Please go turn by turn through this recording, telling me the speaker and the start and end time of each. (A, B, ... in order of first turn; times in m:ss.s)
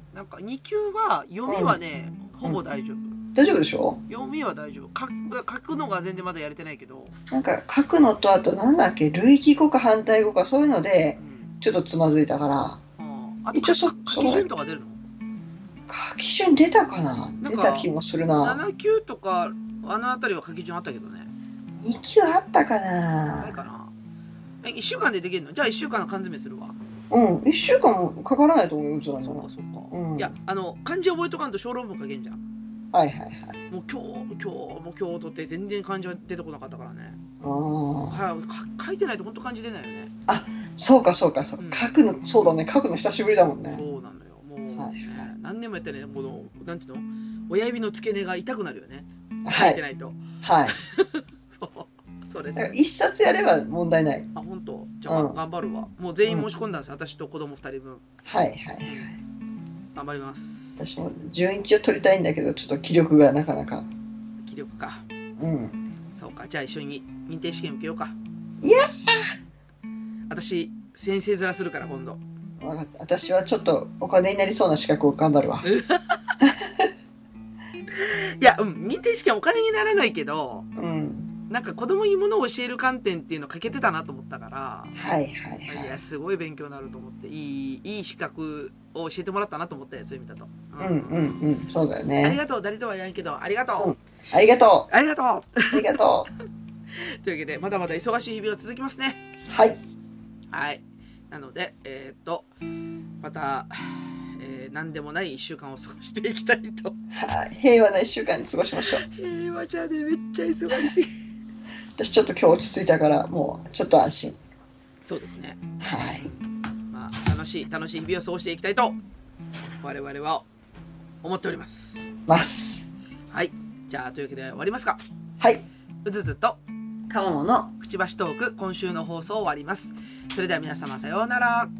0:00.1-0:03.2 A
0:01.5-0:01.8 B
0:03.3-0:04.0 B
0:04.1-0:07.1 A
0:07.3-0:12.8 B
0:11.2-0:11.5 A
0:13.0-0:15.0 A
0:13.5-0:14.5 B
0:15.9-0:18.6 B
0:17.4-0:21.3 A
0:21.8-0:23.5 B
0:23.4-0:23.9 A
0:24.6-0:26.8 A
0:27.1-0:30.3 B
0:29.2-0:32.4 A
0:32.9-0:33.6 B
0:33.7-0:37.2 A
0:37.4-0:38.2 B
0:38.1-0:40.1 A
0:40.3-0:43.8 B
0:41.6-0:41.9 A
0:43.7-0:52.7 A
0:44.7-0:45.3 B
0:49.4-0:49.8 B
0:50.4-0:50.8 B
0:52.6-0:54.3 B
0:54.3-0:58.0 A
0:55.1-0:55.4 B
0:58.2-0:59.1 B
0:58.8-0:59.1 A
0:59.9-1:00.9 A
1:00.8-1:03.9 B
1:04.4-1:05.0 A
1:05.4-1:05.8 B
1:06.1-1:08.2 A
1:08.6-1:09.3 B
1:10.3-1:12.2 A
1:12.6-1:15.6 B
1:15.6-1:16.3 A
1:16.4-1:16.9 B
1:17.9-1:20.7 A
1:20.8-1:21.3 B
1:21.5-1:24.9 A
1:24.9-1:25.9 B
1:25.7-1:31.3 A
1:30.8-1:32.4 B
1:32.2-1:33.9 A
1:33.8-1:34.9 B
1:34.9-1:35.9 A
1:35.7-1:36.3 B
1:36.9-1:39.2 A
1:39.5-1:39.8 B
1:40.5-1:42.5 A
1:43.2-1:47.0 A
1:47.1-1:49.0 B
1:49.0-1:51.1 A
1:52.0-1:54.4 B
1:55.0-1:55.6 A
1:55.8-1:56.3 B
1:56.9-1:59.0 A
1:59.8-2:00.4 A
2:01.2-2:02.1 A
2:02.3-2:02.8 B
2:03.3-2:05.0 A
2:05.4-2:05.6 B
2:06.0-2:06.6 A
2:07.1-2:07.7 B
2:07.8-2:11.7 A